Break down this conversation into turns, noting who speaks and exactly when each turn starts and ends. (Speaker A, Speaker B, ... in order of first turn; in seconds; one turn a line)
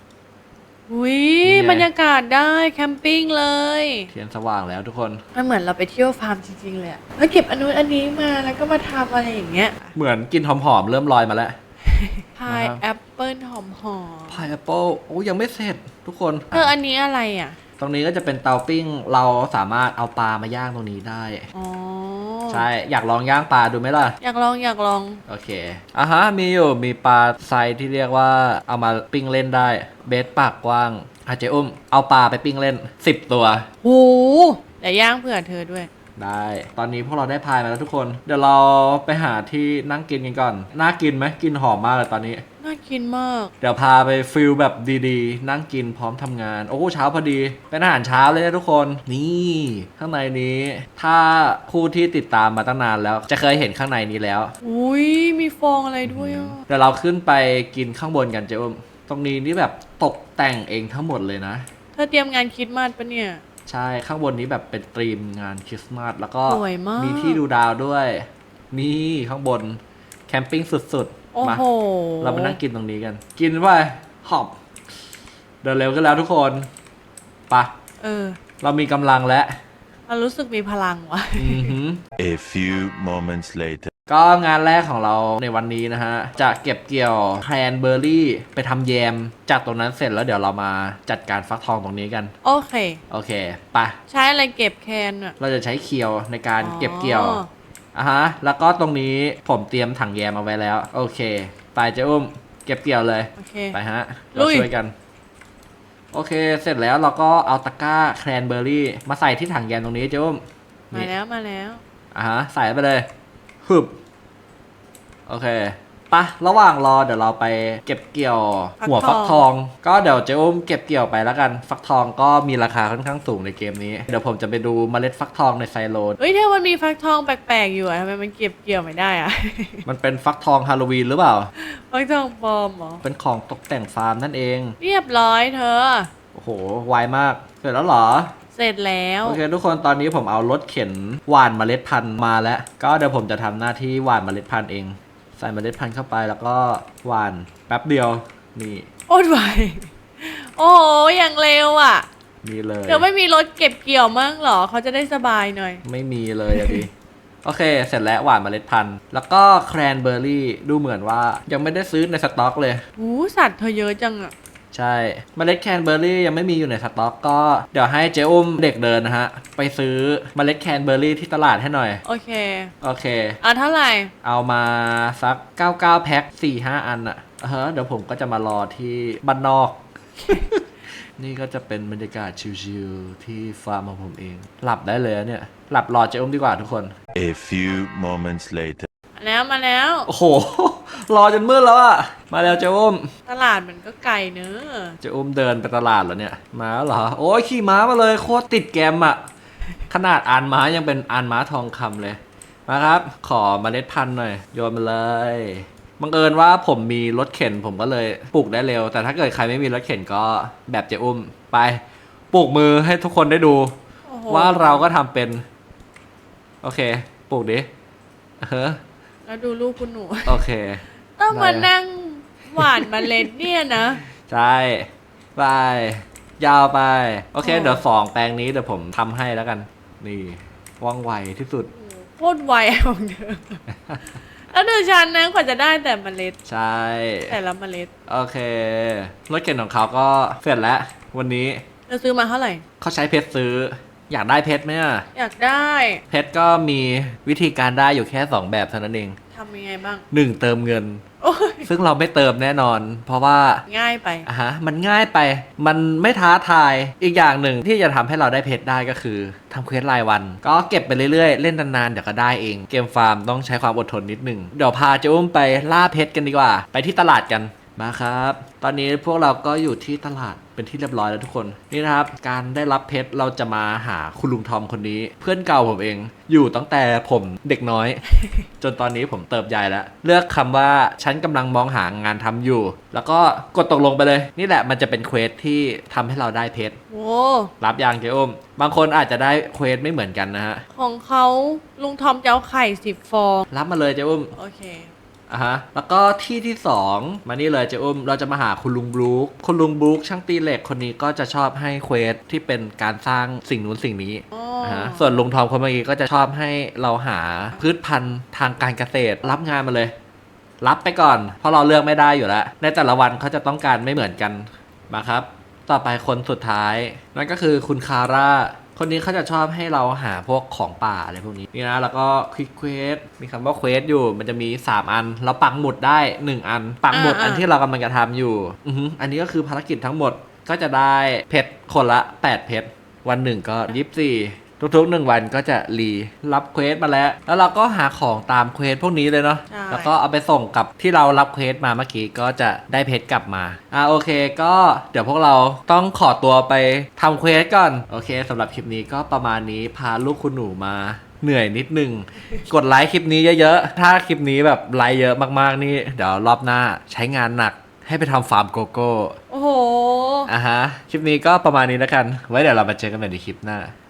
Speaker A: 0.9-4.1
Speaker B: 1.4-1.9
Speaker B: 4.1-5.2
Speaker A: 5.3-9.9
Speaker B: 9.9-11.6
Speaker A: 11.8-14.5
Speaker B: 12.5-12.8
Speaker B: 14.3-16.7
Speaker A: 16.5-17.6
Speaker B: 17.8-21.5
Speaker A: 21.5-22.7
Speaker B: 22.5-24.2
Speaker A: 24.2-25.2
Speaker B: 25.3-33.7
Speaker A: 33.8-35.9
Speaker B: 36.2-42.4
Speaker A: 42.6-43.5
Speaker B: 43.6-54.5
Speaker A: 54.6-56.6
Speaker B: 56.0-61.7
Speaker A: 62.0-63.4
Speaker B: 63.7-71.6
Speaker A: 66.5-67.4
Speaker A: 71.3-72.6
Speaker B: 72.2-74.6
Speaker B: 75.6-76.7
Speaker A: 78.0-78.4
Speaker B: 78.6-79.6
Speaker A: 80.1-81.8
Speaker B: 81.4-82.0
Speaker C: 82.2-83.9
Speaker B: 84.1-92.3
Speaker A: 92.4-93.0
Speaker B: 93.1-94.0
Speaker A: 94.1-95.3
Speaker B: 95.4-97.4
Speaker A: 96.6-97.5
Speaker B: 98.0-104.9
Speaker A: 103.4-103.8
Speaker A: 104.3-104.7
Speaker B: 106.1-111.1
Speaker A: 110.9-111.8
Speaker B: 112.1-113.1
Speaker B: 113.6-114.0
Speaker B: 115.3-126.2
Speaker A: 118.8-119.4
Speaker A: 126.2-129.8
Speaker B: 129.9-131.5
Speaker A: 131.6-133.0
Speaker B: 133.0-134.8
Speaker A: 134.8-136.1
Speaker B: 136.3-138.3
Speaker A: 138.6-139.4
Speaker B: 139.2-148.9
Speaker A: 149.1-152.1
Speaker B: 152.4-153.1
Speaker A: 152.9-155.8
Speaker B: 155.8-156.9
Speaker A: 156.5-156.8
Speaker B: 157.4-162.8
Speaker A: 163.0-164.3
Speaker B: 164.7-172.0
Speaker A: 172.1-172.7
Speaker B: 172.8-173.4
Speaker A: 173.4-174.1
Speaker B: 174.2-180.6
Speaker B: 181.2-186.9
Speaker C: 187.1-188.9
Speaker A: 189.2-190.1
Speaker B: 190.1-193.1
Speaker A: 193.3-195.0
Speaker B: 195.0-199.2
Speaker B: 199.9-213.7
Speaker A: 214.1-214.8
Speaker B: 214.3-215.4
Speaker B: 216.6-217.7
Speaker B: 218.4-218.8
Speaker A: 219.3-220.4
Speaker B: 220.3-221.7
Speaker A: 221.2-224.0
Speaker B: 222.6-223.3
Speaker B: 224.2-231.7
Speaker A: 227.4-227.8
Speaker A: 231.8-233.6
Speaker A: 234.5-236.4
Speaker B: 236.5-237.4
Speaker A: 237.3-237.9
Speaker B: 238.1-241.6
Speaker A: 241.9-242.6
Speaker B: 242.8-245.1
Speaker A: 245.2-246.0
Speaker B: 246.1-249.2
Speaker A: 249.3-250.0
Speaker B: 250.1-251.0
Speaker A: 251.2-251.7
Speaker B: 251.6-253.6
Speaker A: 253.7-254.3
Speaker B: 254.2-278.0
Speaker B: 278.6-286.8
Speaker A: 286.9-287.5
Speaker B: 287.6-290.6
Speaker A: 290.8-293.4
Speaker B: 293.5-294.3
Speaker A: 294.4-294.9
Speaker B: 295.3-309.9
Speaker A: 304.3-305.0
Speaker B: 310.6-359.2
Speaker A: 326.9-327.5
Speaker A: 339.5-339.9
Speaker A: 359.3-360.3
Speaker B: 360.3-363.7